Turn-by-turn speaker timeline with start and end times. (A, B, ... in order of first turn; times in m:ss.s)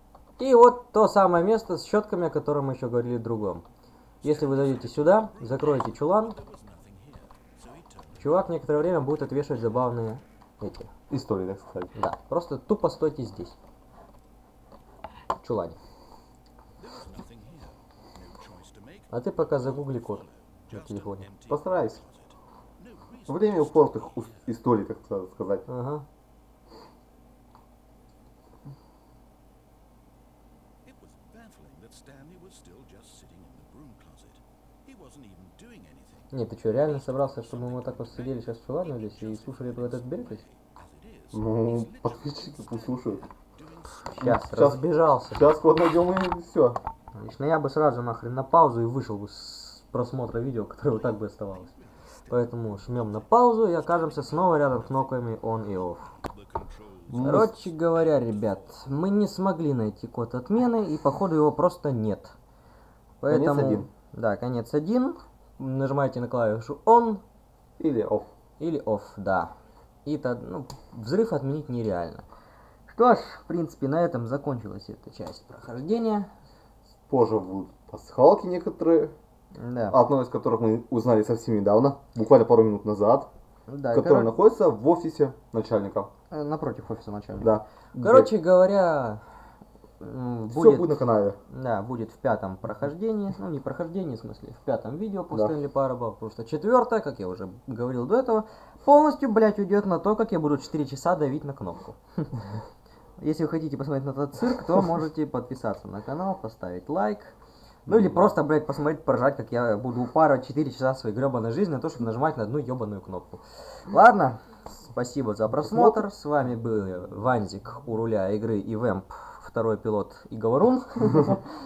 0:00.4-0:03.6 A
0:04.2-0:06.4 A
0:08.2-0:10.9 A
0:11.1-0:11.9 B
0:12.0-0:13.6 A
0:15.4-0:15.8 A
0:19.1-0:21.3 A
0:21.5-0:22.0 B
0:23.3-0:25.6 B
0:25.7-0:26.0 A
0:36.3-0:40.4 A
0:41.3-0:43.3 B
0:44.1-0:45.4 A
0:44.2-0:46.8 B
0:47.1-0:51.7 A
0:52.3-0:56.1 A
0:57.1-0:57.5 B
0:57.2-1:02.4 A
1:03.2-1:07.2 A
1:03.3-1:03.9 B
1:07.8-1:08.3 B
1:08.6-1:09.5 A
1:10.0-1:12.3 A
1:12.9-1:16.3 A
1:17.1-1:19.1 B
1:19.6-1:20.0 A
1:19.9-1:23.3 B
1:23.7-1:24.4 A
1:23.9-1:26.1 B
1:26.3-1:29.2 A
1:27.4-1:28.3 B
1:30.0-1:31.0 A
1:30.5-1:31.4 B
1:31.5-1:42.3 A
1:43.2-1:47.4 A
1:47.9-1:48.3 B
1:47.9-2:01.5 A
1:55.6-1:56.1 B